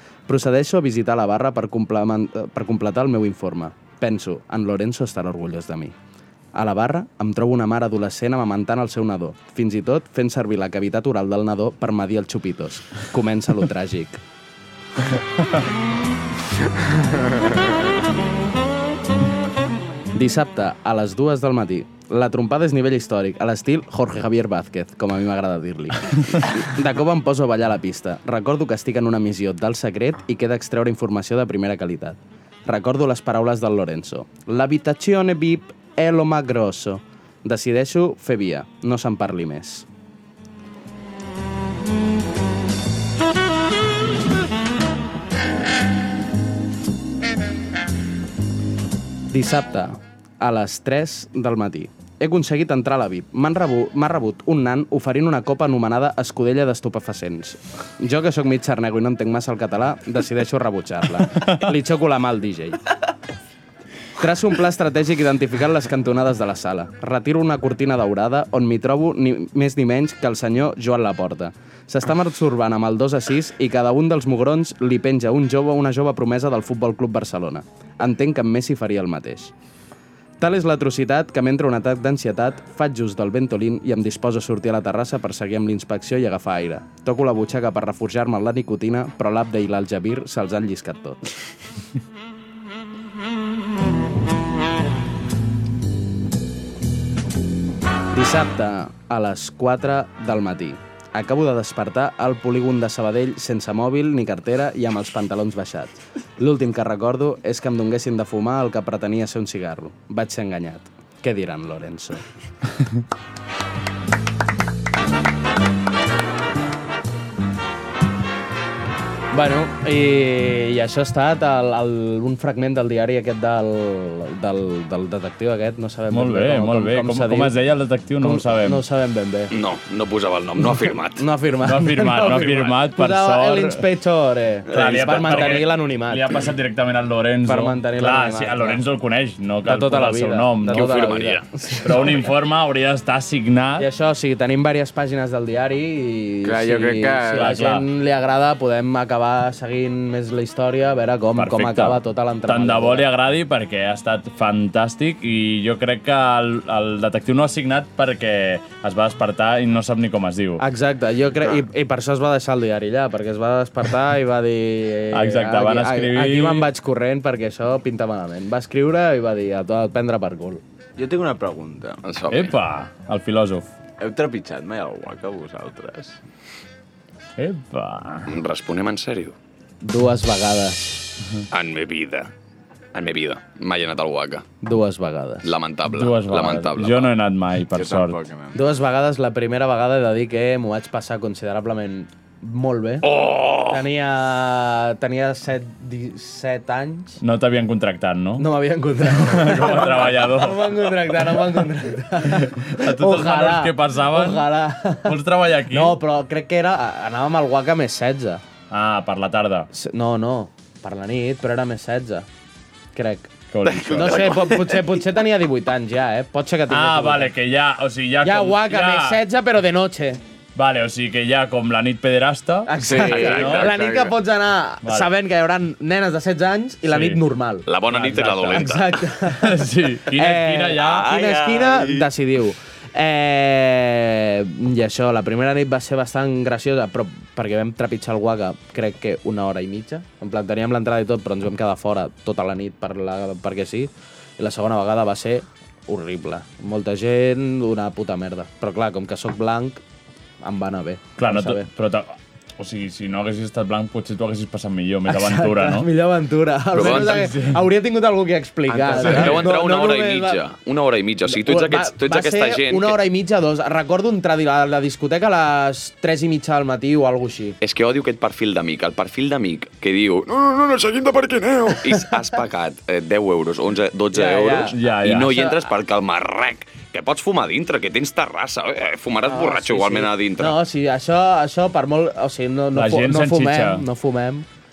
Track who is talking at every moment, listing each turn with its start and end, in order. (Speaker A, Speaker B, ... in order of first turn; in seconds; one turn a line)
Speaker A: 0.3-6.0
Speaker A: 6.5-14.2
Speaker A: 20.1-39.9
Speaker A: 49.3-62.8
Speaker A: 64.2-79.5
Speaker A: 80.4-91.2
Speaker A: 98.1-112.2
Speaker A: 119.3-127.5
Speaker B: 126.1-128.8
Speaker A: 128.2-129.5
Speaker C: 129.5-131.2
Speaker A: 131.2-136.3
Speaker B: 131.6-133.8
Speaker C: 134.7-135.6
Speaker B: 134.7-143.9
Speaker A: 137.5-138.8
Speaker A: 139.7-142.2
Speaker C: 140.7-141.5
Speaker A: 143.8-153.1
Speaker D: 146.4-147.7
Speaker B: 147.3-147.8
Speaker B: 151.3-160.6
Speaker A: 160.6-170.6
Speaker B: 165.1-166.7
Speaker D: 171.0-172.0
Speaker C: 172.0-172.6
Speaker B: 172.3-173.7
Speaker D: 174.0-176.2
Speaker B: 177.4-178.3
Speaker C: 178.3-179.4
Speaker A: 179.8-181.1
Speaker C: 181.5-182.3
Speaker C: 182.9-184.4
Speaker A: 184.6-185.5
Speaker C: 185.4-187.1
Speaker B: 185.9-188.2
Speaker D: 187.7-188.6
Speaker A: 188.5-197.2
Speaker C: 193.0-193.8
Speaker B: 197.2-198.5
Speaker A: 198.4-205.2
Speaker B: 199.0-200.9
Speaker B: 202.2-206.0
Speaker A: 205.7-208.4
Speaker B: 208.7-209.7
Speaker A: 209.7-212.3
Speaker A: 212.9-213.3
Speaker B: 213.5-214.4
Speaker C: 213.7-215.0
Speaker A: 213.9-217.3
Speaker B: 216.7-219.2
Speaker A: 218.2-220.2
Speaker B: 220.6-223.7
Speaker A: 222.7-227.7
Speaker D: 222.8-224.2
Speaker C: 223.2-223.7
Speaker B: 224.8-225.1
Speaker B: 226.9-227.2
Speaker C: 227.7-229.0
Speaker B: 227.9-231.1
Speaker A: 228.5-249.8
Speaker C: 230.8-232.1
Speaker A: 250.4-251.7
Speaker B: 251.2-255.9
Speaker A: 255.1-260.4
Speaker B: 256.7-257.6
Speaker C: 256.7-257.3
Speaker C: 258.7-263.0
Speaker B: 258.9-259.5
Speaker A: 261.3-267.6
Speaker C: 267.6-280.6
Speaker A: 274.1-275.6
Speaker B: 274.7-275.4
Speaker A: 279.3-284.5
Speaker B: 282.7-283.9